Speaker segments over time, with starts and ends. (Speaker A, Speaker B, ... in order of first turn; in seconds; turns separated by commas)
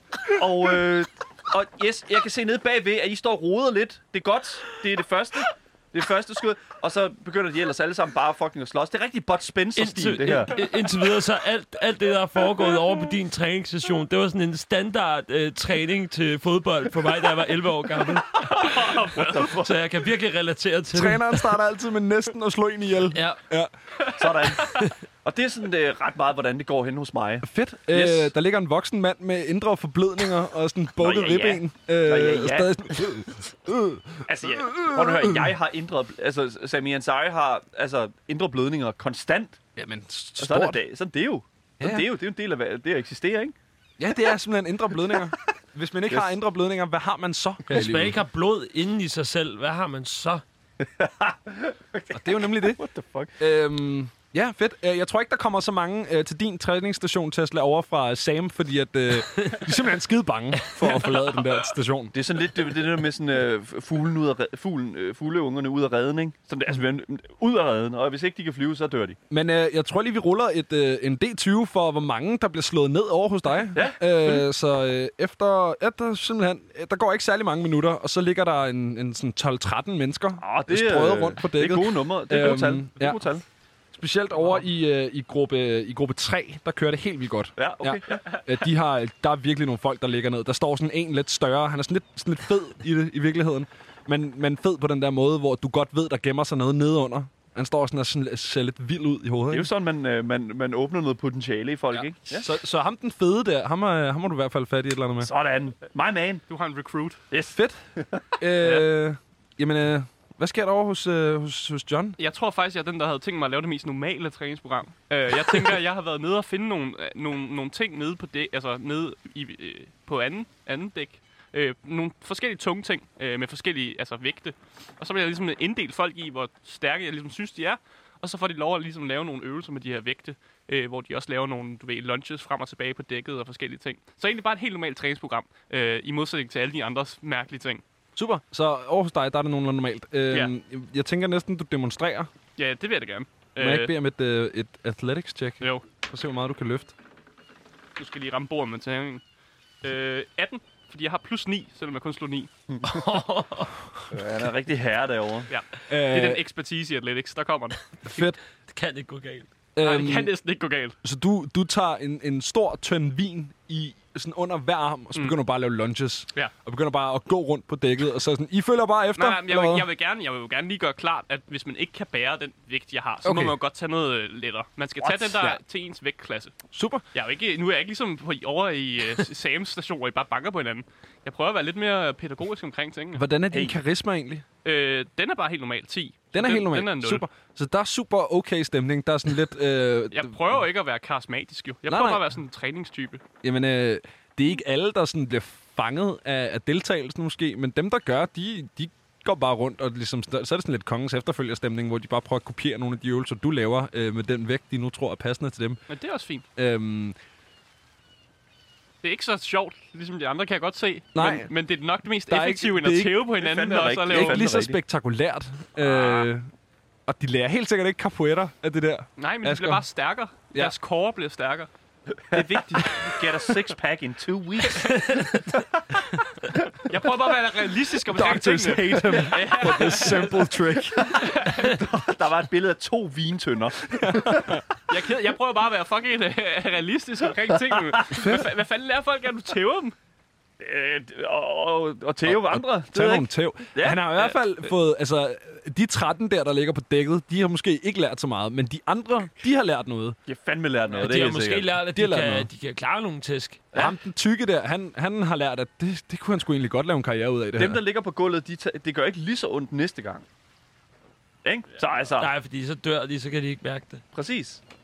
Speaker A: 0.3-10.6, Speaker B: 9.8-18.7, Speaker C: 18.5-19.5, Speaker A: 18.6-19.8, Speaker B: 19.4-21.6, Speaker D: 20.9-23.7, Speaker B: 23.1-23.4, Speaker C: 24.0-24.8, Speaker A: 24.1-28.3, Speaker D: 27.4-35.5, Speaker A: 31.0-32.7, Speaker A: 34.3-39.6, Speaker D: 39.8-40.8, Speaker A: 40.4-43.5, Speaker D: 41.8-42.1, Speaker D: 44.0-48.2, Speaker B: 47.7-50.4, Speaker A: 50.8-53.4, Speaker D: 52.1-52.8, Speaker D: 53.4-62.1, Speaker A: 62.1-69.2, Speaker D: 69.3-83.2, Speaker A: 73.7-74.5, Speaker A: 80.4-83.4, Speaker D: 83.9-99.7, Speaker A: 87.6-88.4, Speaker A: 99.5-102.5, Speaker D: 102.0-105.3, Speaker A: 105.2-106.4, Speaker C: 106.5-107.2, Speaker A: 107.3-108.2, Speaker D: 107.5-107.8, Speaker D: 108.4-112.2, Speaker C: 108.6-108.9, Speaker C: 112.2-137.8, Speaker D: 138.2-142.3, Speaker C: 142.6-143.9, Speaker D: 143.6-146.9, Speaker C: 148.0-149.2, Speaker C: 149.8-152.5, Speaker B: 152.8-153.7, Speaker A: 154.1-155.5, Speaker C: 155.5-158.2, Speaker D: 155.9-156.4, Speaker D: 158.1-158.4, Speaker B: 158.7-159.5, Speaker D: 159.8-160.3, Speaker C: 159.8-161.0, Speaker D: 161.0-169.9, Speaker C: 169.2-176.5, Speaker D: 173.2-173.6, Speaker A: 175.0-175.5, Speaker D: 176.7-177.0, Speaker C: 177.1-183.2, Speaker D: 183.1-184.4, Speaker C: 184.7-187.2, Speaker D: 186.3-190.6, Speaker C: 190.1-193.2, Speaker D: 191.9-192.2, Speaker D: 193.4-205.8, Speaker C: 205.9-206.4, Speaker D: 206.6-207.2, Speaker C: 209.0-214.6, Speaker D: 211.2-211.5, Speaker D: 212.3-213.2, Speaker A: 213.4-214.8, Speaker D: 214.1-216.5, Speaker A: 216.0-216.3, Speaker D: 217.1-219.8, Speaker C: 219.2-221.7, Speaker A: 222.3-225.4, Speaker D: 222.3-223.1, Speaker C: 226.9-230.4, Speaker D: 228.1-231.2, Speaker A: 231.0-234.6, Speaker C: 231.1-231.8, Speaker D: 233.9-234.6, Speaker C: 234.9-239.9, Speaker D: 238.2-238.5, Speaker A: 240.6-244.0, Speaker D: 242.2-250.2, Speaker A: 250.3-251.7, Speaker B: 250.9-253.6, Speaker D: 251.9-252.5, Speaker D: 253.7-257.8, Speaker A: 257.6-260.3, Speaker A: 261.4-262.3, Speaker B: 262.1-264.0, Speaker A: 264.1-264.6